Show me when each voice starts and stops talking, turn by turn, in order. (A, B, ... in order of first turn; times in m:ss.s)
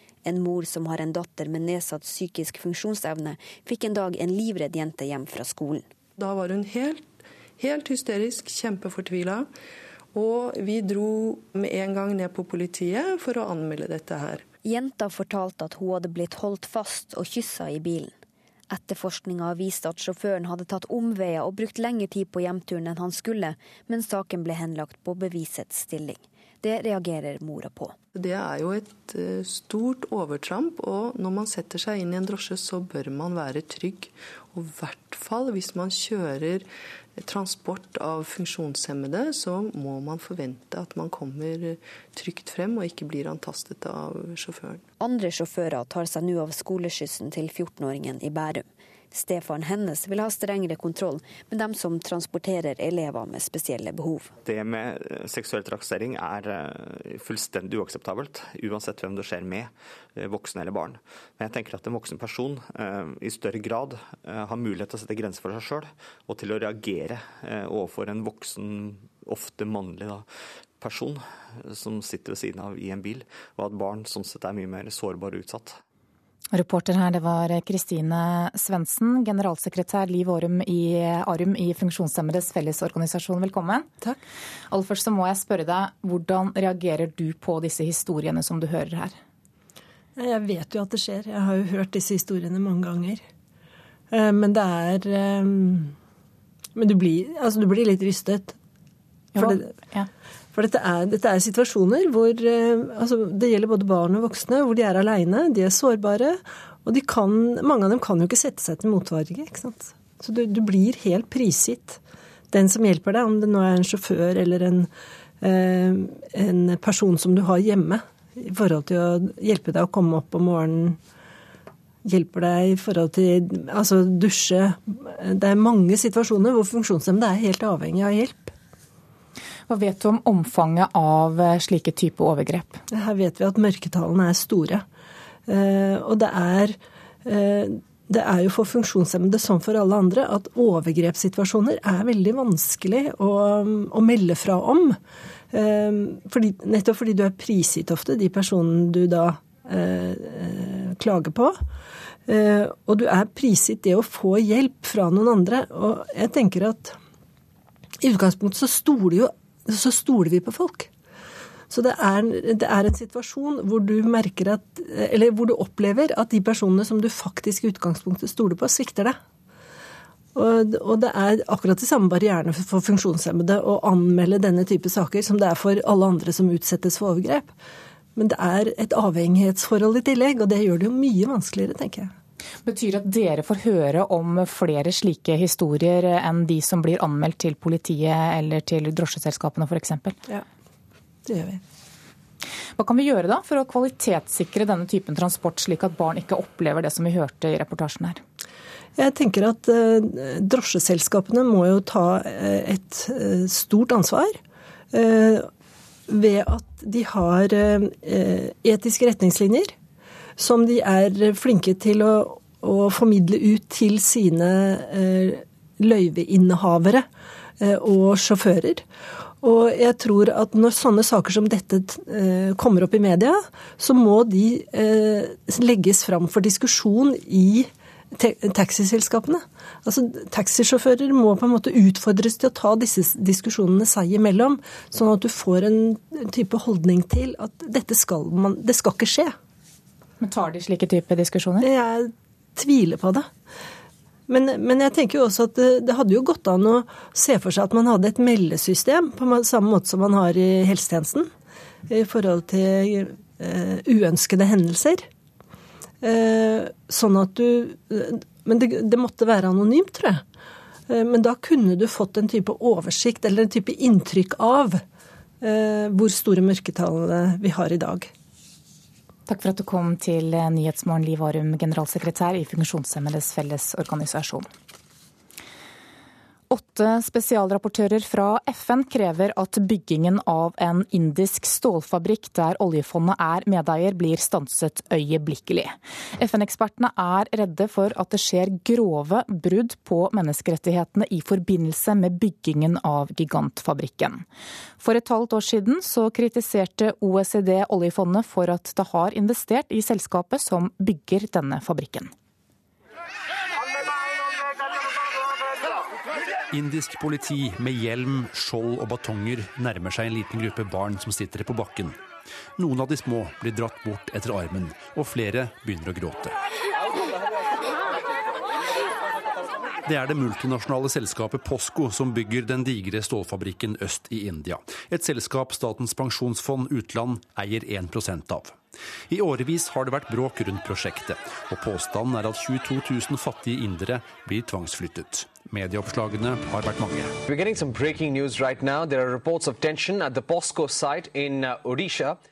0:00.2-0:05.8 A
0:06.2-0:09.5 B
0:10.1-0:14.4 B
0:14.6-0:18.1 A
0:18.7-0:28.0 A
0:28.2-0:44.8 B
0:45.0-0:54.3 A
0:54.4-1:15.8 C
1:16.5-1:23.9 D
1:24.7-1:29.2 D
1:30.2-1:33.2 E
1:34.1-1:35.9 E
1:36.8-1:38.6 E
1:39.4-1:40.1 D
1:39.4-1:39.7 E
1:40.5-1:52.0 E
1:52.5-1:54.9 E
1:55.4-2:01.0 E
2:02.1-2:08.5 E
2:09.7-2:12.8 D
2:12.9-2:14.8 E
2:15.5-2:25.0 E
2:25.5-2:31.6 E
2:32.3-2:37.0 E
2:38.0-2:40.9 E
2:41.7-2:49.2 E
2:50.4-2:57.5 E
2:58.2-3:02.1 E
3:02.7-3:10.2 D
3:11.3-3:11.6 E
3:12.8-3:18.2 D
3:19.0-3:24.4 E
3:24.9-3:25.5 E
3:26.1-3:29.8 E
3:30.4-3:37.1 E
3:37.6-3:38.9 E
3:39.4-3:59.4 E
4:00.2-4:01.7 D
4:01.6-4:03.3 E
4:04.3-4:11.3 E
4:11.9-4:15.1 E
4:16.0-4:20.2 E
4:20.9-4:24.8 E
4:25.4-4:28.1 E
4:29.3-4:34.5 D
4:36.5-4:54.2 D
4:54.8-5:02.1 D
5:06.5-5:12.0 F
5:12.6-5:16.4 F
5:19.9-5:37.2 F
5:37.3-5:42.1 G